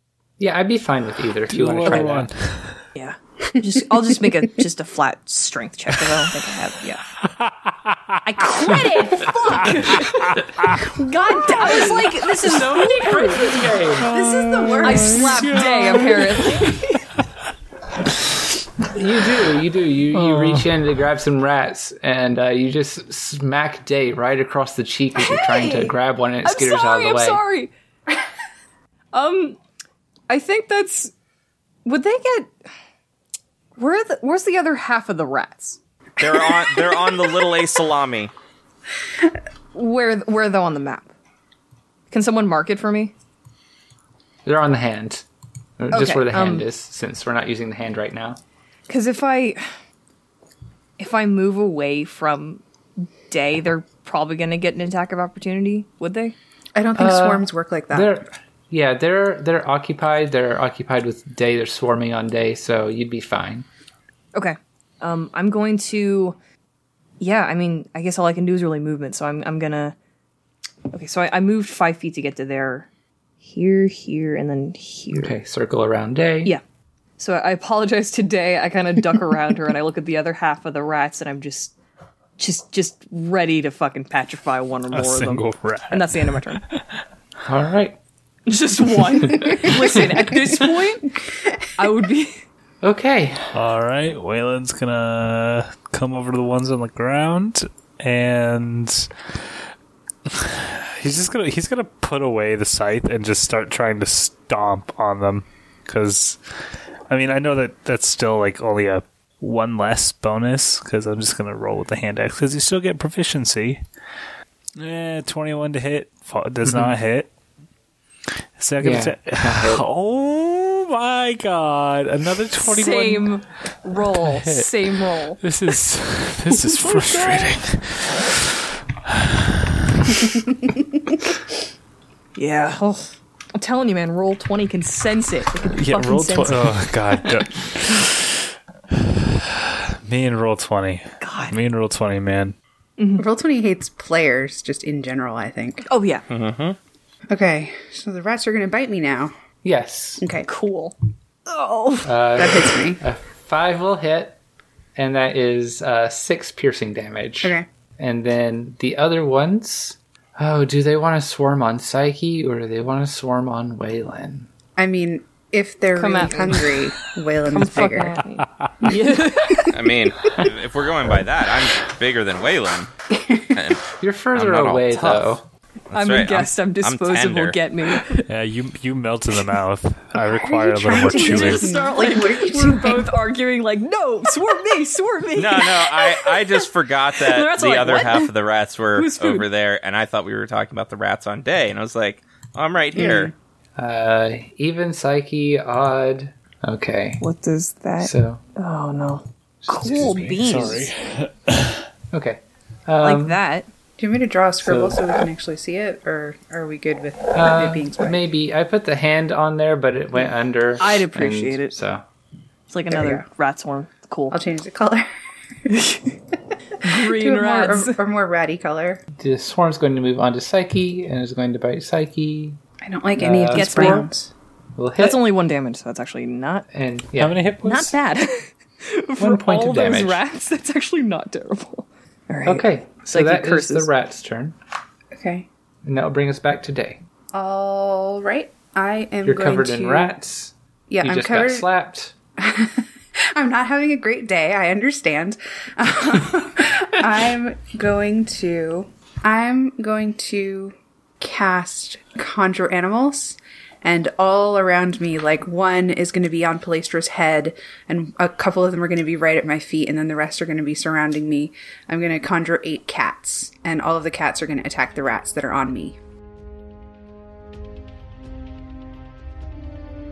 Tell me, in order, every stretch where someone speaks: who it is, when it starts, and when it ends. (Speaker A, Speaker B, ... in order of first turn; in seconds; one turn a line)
Speaker A: 0.4-2.3
Speaker B: 1.5-2.8
Speaker C: 2.9-7.0
Speaker B: 7.4-8.0
Speaker C: 8.2-13.7
Speaker B: 9.7-10.9
Speaker D: 11.0-12.1
Speaker A: 12.5-14.2
Speaker D: 14.0-15.7
Speaker B: 14.0-16.6
Speaker C: 14.8-17.1
Speaker A: 18.9-27.4
Speaker B: 20.1-20.7
Speaker C: 25.2-27.7
Speaker C: 29.1-29.6
Speaker C: 30.3-31.1
Speaker C: 31.8-32.5
Speaker C: 33.8-35.8
Speaker E: 36.2-38.3
Speaker C: 39.7-41.1
Speaker C: 42.1-43.1
Speaker A: 44.4-45.2
Speaker A: 45.8-48.4
Speaker C: 45.9-46.7
Speaker C: 48.9-49.6
Speaker C: 51.0-56.3
Speaker D: 56.8-58.1
Speaker A: 57.0-63.6
Speaker C: 64.3-66.3
Speaker C: 67.2-69.9
Speaker C: 70.9-72.9
Speaker C: 73.4-75.3
Speaker A: 75.1-76.5
Speaker C: 77.2-81.7
Speaker C: 82.4-86.6
Speaker B: 84.9-86.8
Speaker A: 87.5-88.0
Speaker C: 88.5-91.2
Speaker A: 89.5-90.0
Speaker C: 91.7-92.4
Speaker A: 92.8-93.5
Speaker B: 93.5-99.2
Speaker B: 100.3-106.4
Speaker B: 107.1-113.8
Speaker B: 114.8-117.3
Speaker B: 118.6-123.3
Speaker A: 118.8-119.8
Speaker C: 122.6-125.4
Speaker B: 124.1-124.8
Speaker B: 125.4-128.5
Speaker C: 126.6-127.5
Speaker B: 129.1-129.4
Speaker B: 130.0-130.3
Speaker C: 132.3-136.8
Speaker B: 135.7-138.3
Speaker B: 138.9-142.5
Speaker C: 141.2-141.6
Speaker C: 143.0-143.2
Speaker D: 143.2-145.9
Speaker C: 145.9-146.2
Speaker E: 146.3-146.8
Speaker D: 147.3-149.3
Speaker A: 149.6-150.2
Speaker D: 150.2-150.5
Speaker C: 150.4-152.1
Speaker A: 152.0-154.4
Speaker D: 152.3-153.0
Speaker A: 154.9-164.5
Speaker D: 164.8-168.2
Speaker C: 165.9-166.7
Speaker C: 167.4-169.7
Speaker B: 168.6-168.9
Speaker E: 169.6-172.9
Speaker D: 173.1-173.5
Speaker E: 173.5-175.4
Speaker A: 174.0-175.4
Speaker E: 175.9-177.6
Speaker C: 175.9-178.3
Speaker B: 178.2-181.7
Speaker D: 180.3-183.1
Speaker C: 180.9-188.3
Speaker E: 185.3-193.3
Speaker C: 188.9-189.4
Speaker D: 192.9-193.3
Speaker A: 193.8-197.2
Speaker C: 197.2-200.9
Speaker A: 198.0-198.4
Speaker A: 199.6-200.6
Speaker B: 199.8-201.8
Speaker A: 202.1-203.4
Speaker C: 203.0-203.7
Speaker D: 204.0-208.2
Speaker A: 204.6-205.1
Speaker A: 207.3-212.0
Speaker C: 210.8-211.7
Speaker C: 212.7-214.4
Speaker D: 212.9-213.2
Speaker D: 214.3-215.1
Speaker C: 215.7-216.1
Speaker C: 216.8-218.0
Speaker D: 216.9-219.0
Speaker A: 219.2-222.6
Speaker D: 222.8-224.3
Speaker A: 223.2-224.1
Speaker C: 223.5-224.1
Speaker A: 224.8-225.2
Speaker C: 225.0-226.7
Speaker A: 226.7-227.4
Speaker B: 227.2-227.9
Speaker C: 227.6-233.9
Speaker A: 229.2-230.2
Speaker A: 232.4-234.6
Speaker D: 235.1-235.5
Speaker A: 235.8-237.0
Speaker D: 237.3-240.1
Speaker A: 239.2-242.1
Speaker D: 240.9-241.7
Speaker D: 242.4-266.0